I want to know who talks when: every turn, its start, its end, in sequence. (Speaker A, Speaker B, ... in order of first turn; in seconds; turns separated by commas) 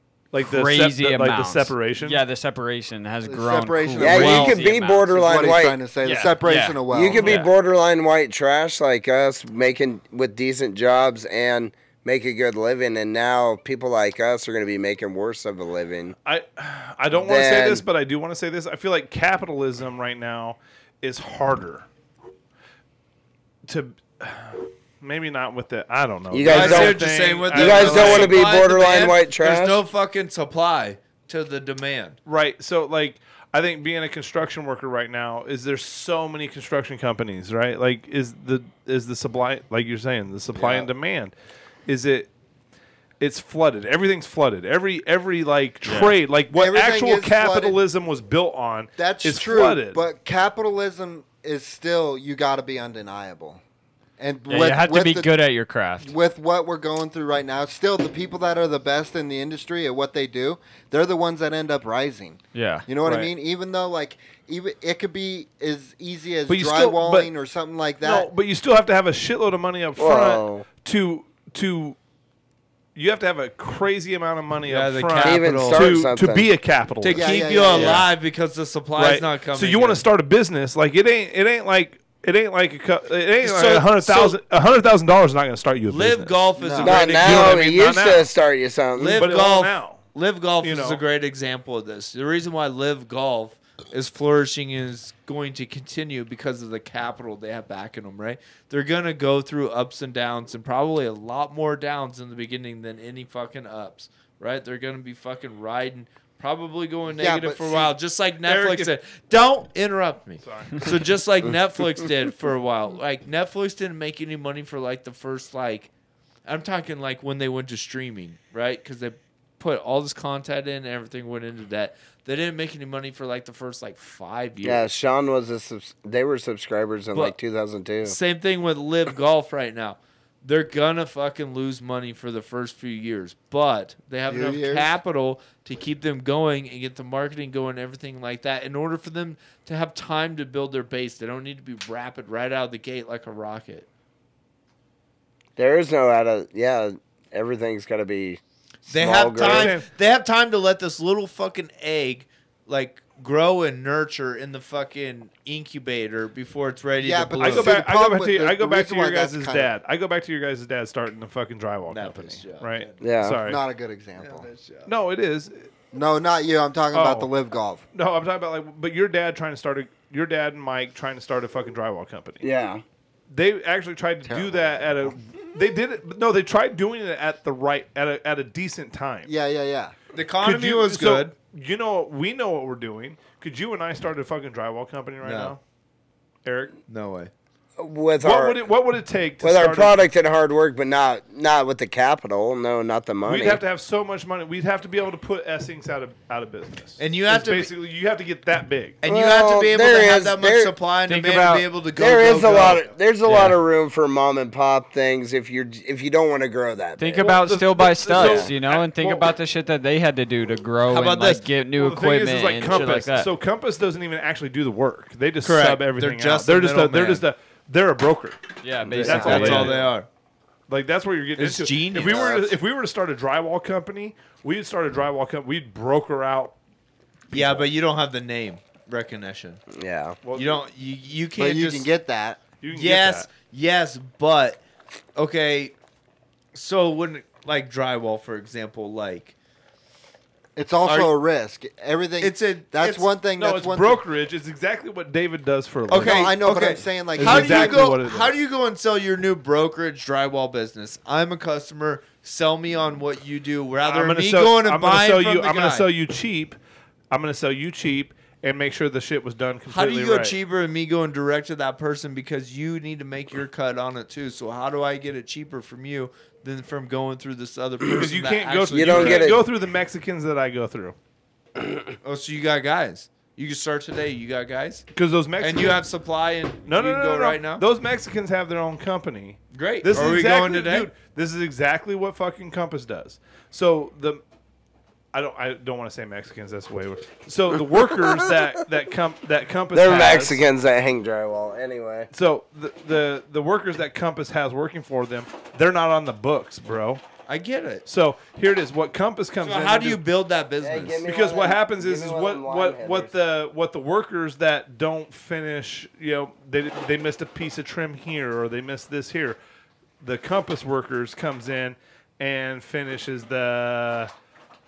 Speaker A: 0.3-2.2, Speaker B: 0.4-5.2, Speaker C: 3.2-7.3, Speaker D: 4.0-5.8, Speaker B: 6.0-7.5, Speaker D: 6.9-16.1, Speaker A: 16.2-21.9, Speaker D: 17.1-17.8, Speaker A: 23.7-28.4, Speaker D: 26.3-29.8, Speaker E: 26.4-32.2, Speaker A: 32.2-41.3, Speaker A: 41.9-42.3, Speaker A: 43.2-50.0, Speaker B: 45.8-46.2, Speaker C: 46.5-47.8, Speaker C: 49.0-53.6, Speaker C: 54.2-55.3, Speaker B: 54.5-56.1, Speaker C: 56.0-68.3, Speaker B: 62.5-62.9, Speaker A: 63.0-63.3, Speaker A: 66.5-67.3, Speaker A: 68.0-72.0, Speaker D: 70.0-70.7, Speaker A: 72.9-77.3, Speaker E: 74.7-75.9, Speaker D: 75.2-76.5, Speaker E: 77.0-80.0, Speaker C: 77.1-78.0, Speaker A: 79.0-86.4, Speaker E: 83.4-84.4, Speaker E: 85.9-87.7, Speaker C: 86.6-87.0, Speaker D: 86.8-89.2, Speaker A: 87.0-88.3, Speaker E: 88.9-115.9, Speaker A: 89.2-90.0, Speaker A: 90.6-91.0, Speaker C: 107.1-107.9, Speaker A: 108.4-108.9, Speaker A: 110.4-110.8, Speaker E: 116.4-124.9, Speaker D: 124.6-128.2, Speaker E: 128.0-143.9, Speaker C: 134.3-134.9, Speaker D: 145.6-149.7, Speaker E: 148.9-157.7, Speaker A: 149.4-149.9, Speaker C: 157.0-159.7, Speaker A: 157.4-163.6, Speaker E: 161.9-163.0, Speaker D: 163.0-163.4, Speaker C: 163.4-164.5, Speaker E: 164.2-164.9, Speaker A: 164.8-165.7, Speaker C: 165.9-167.8, Speaker A: 166.9-167.3, Speaker A: 167.9-172.4, Speaker D: 172.4-172.8, Speaker A: 173.3-179.3, Speaker C: 174.2-175.1, Speaker C: 179.2-179.9, Speaker E: 180.1-181.3, Speaker A: 180.4-185.6, Speaker E: 185.2-185.5, Speaker A: 186.4-186.7, Speaker E: 186.9-187.3, Speaker D: 187.8-188.7, Speaker A: 188.2-190.0, Speaker D: 189.4-193.6, Speaker A: 193.2-199.0, Speaker E: 197.0-197.7, Speaker E: 199.0-202.8, Speaker D: 199.0-200.7, Speaker B: 201.1-201.7, Speaker D: 202.0-207.3, Speaker A: 202.5-202.9, Speaker B: 203.2-203.6, Speaker B: 207.0-213.3, Speaker A: 207.2-209.3, Speaker D: 208.1-208.5, Speaker E: 210.9-211.5, Speaker A: 211.8-218.4, Speaker E: 215.4-217.2, Speaker B: 218.6-219.8, Speaker E: 218.9-220.1, Speaker A: 219.0-219.9, Speaker A: 220.7-226.5, Speaker E: 221.4-222.4, Speaker A: 227.3-227.7, Speaker E: 227.3-229.6, Speaker D: 229.7-230.2, Speaker A: 230.2-230.6, Speaker E: 230.3-231.9, Speaker C: 231.4-232.4, Speaker A: 232.6-233.3, Speaker E: 232.7-234.6, Speaker E: 235.2-235.7, Speaker E: 236.5-239.3, Speaker C: 240.6-244.0, Speaker E: 240.8-241.1, Speaker E: 242.2-243.1, Speaker A: 243.4-246.3, Speaker E: 245.9-255.9, Speaker C: 245.9-248.0, Speaker A: 247.2-248.3, Speaker A: 253.8-256.6, Speaker A: 257.1-260.4, Speaker E: 259.7-269.4, Speaker A: 267.9-270.9, Speaker D: 268.7-269.4, Speaker E: 272.0-274.8, Speaker A: 274.9-275.8, Speaker E: 275.4-277.6, Speaker A: 276.7-284.2, Speaker E: 279.5-280.9, Speaker A: 285.1-290.4, Speaker D: 287.8-288.1, Speaker D: 289.7-292.1, Speaker A: 292.1-297.0, Speaker E: 297.3-297.8, Speaker A: 297.9-300.0, Speaker E: 299.4-301.0, Speaker D: 300.6-303.1, Speaker A: 301.0-309.4, Speaker A: 310.0-314.1